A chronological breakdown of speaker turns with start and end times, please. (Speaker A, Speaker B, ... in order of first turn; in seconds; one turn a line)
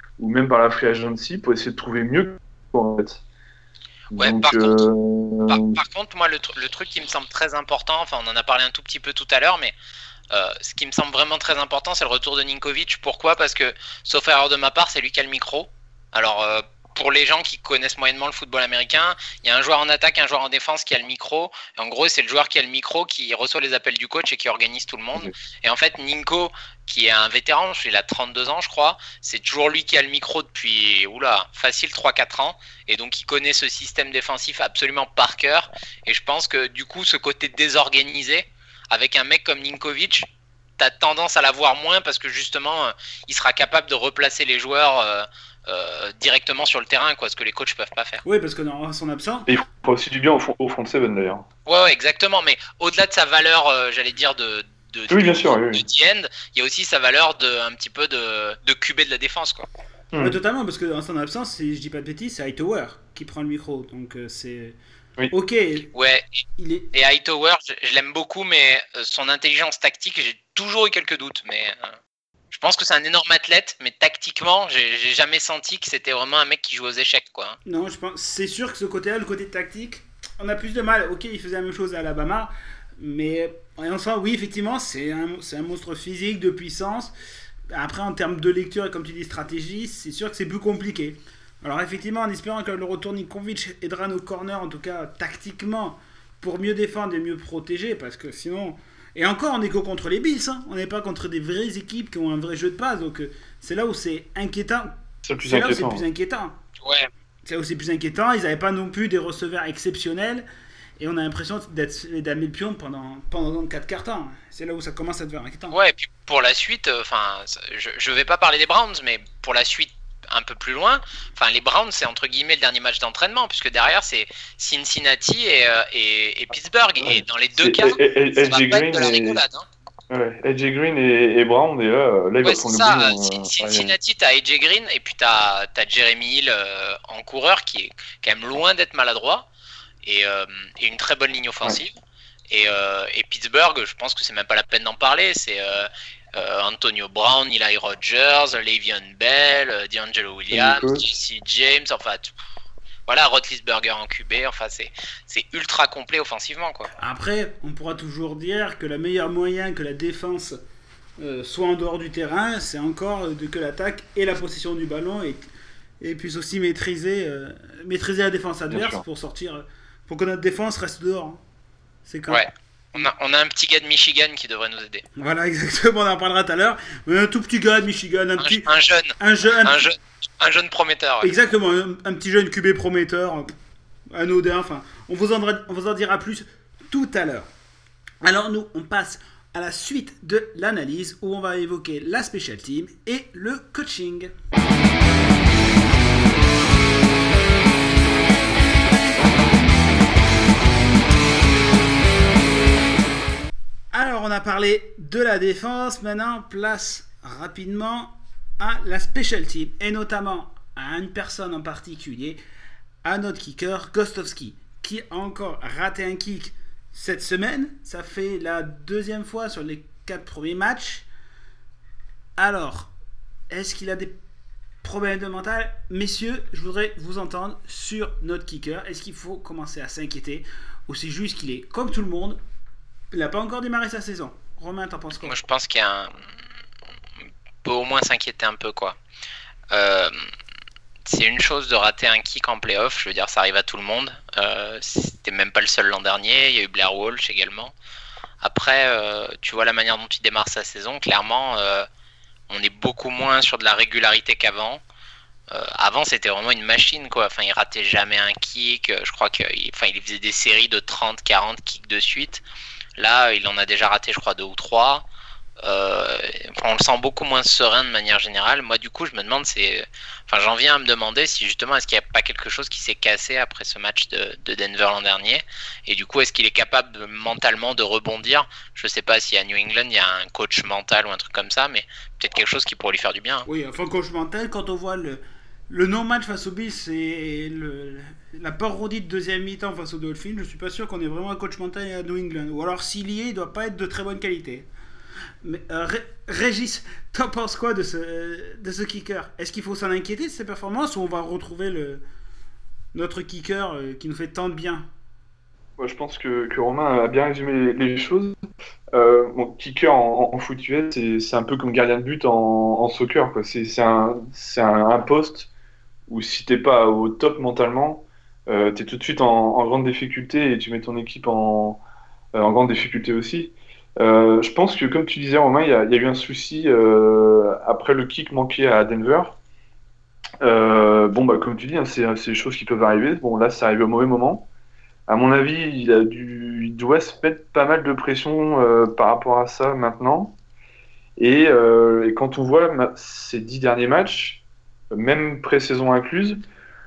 Speaker A: 0.2-3.2
Speaker A: 4.1-5.8
Speaker B: 4.1-4.8
Speaker B: 5.5-9.8
Speaker B: 10.3-40.3
Speaker B: 40.8-48.2
Speaker C: 48.2-49.5
Speaker A: 49.5-51.5
Speaker B: 51.7-59.7
Speaker A: 55.1-55.9
Speaker A: 60.1-60.4
Speaker C: 60.2-64.8
Speaker C: 65.3-65.9
Speaker B: 66.0-66.3
Speaker C: 66.6-66.9
Speaker B: 66.9-72.0
Speaker B: 72.5-77.6
Speaker C: 77.7-87.1
Speaker C: 87.7-104.9
Speaker A: 105.2-106.0
Speaker C: 105.4-106.6
Speaker B: 106.8-107.1
Speaker C: 107.5-110.5
Speaker C: 111.0-115.8
Speaker B: 115.7-129.7
Speaker A: 127.0-129.4
Speaker A: 130.1-133.9
Speaker B: 132.4-139.5
Speaker B: 140.0-141.9
Speaker B: 142.5-152.3
Speaker A: 150.5-151.1
Speaker B: 153.1-156.9
Speaker C: 157.0-160.6
Speaker C: 161.2-165.4
Speaker C: 166.0-171.4
Speaker A: 168.7-169.0
Speaker C: 172.1-172.4
Speaker B: 172.3-175.0
Speaker C: 175.2-178.7
Speaker B: 178.4-181.3
Speaker C: 179.2-179.9
Speaker C: 181.2-183.5
Speaker C: 184.1-187.5
Speaker C: 188.2-194.3
Speaker C: 203.9-212.4
Speaker C: 213.0-221.1
Speaker C: 222.4-222.9
Speaker C: 223.5-224.2
Speaker C: 224.8-232.4
Speaker C: 233.1-235.3
Speaker B: 235.2-236.2
Speaker B: 237.6-239.0
Speaker B: 239.7-240.2
Speaker B: 241.1-247.7
Speaker B: 248.4-251.9
Speaker B: 252.5-254.8
Speaker B: 255.5-262.4
Speaker B: 263.0-265.1
Speaker B: 265.6-283.5
Speaker C: 283.5-294.7
Speaker C: 295.4-302.0
Speaker C: 302.9-304.9
Speaker A: 305.8-308.4
Speaker A: 308.9-315.5
Speaker A: 316.1-321.8
Speaker A: 322.4-329.4
Speaker A: 330.4-334.5
Speaker A: 335.1-340.4
Speaker A: 341.2-346.4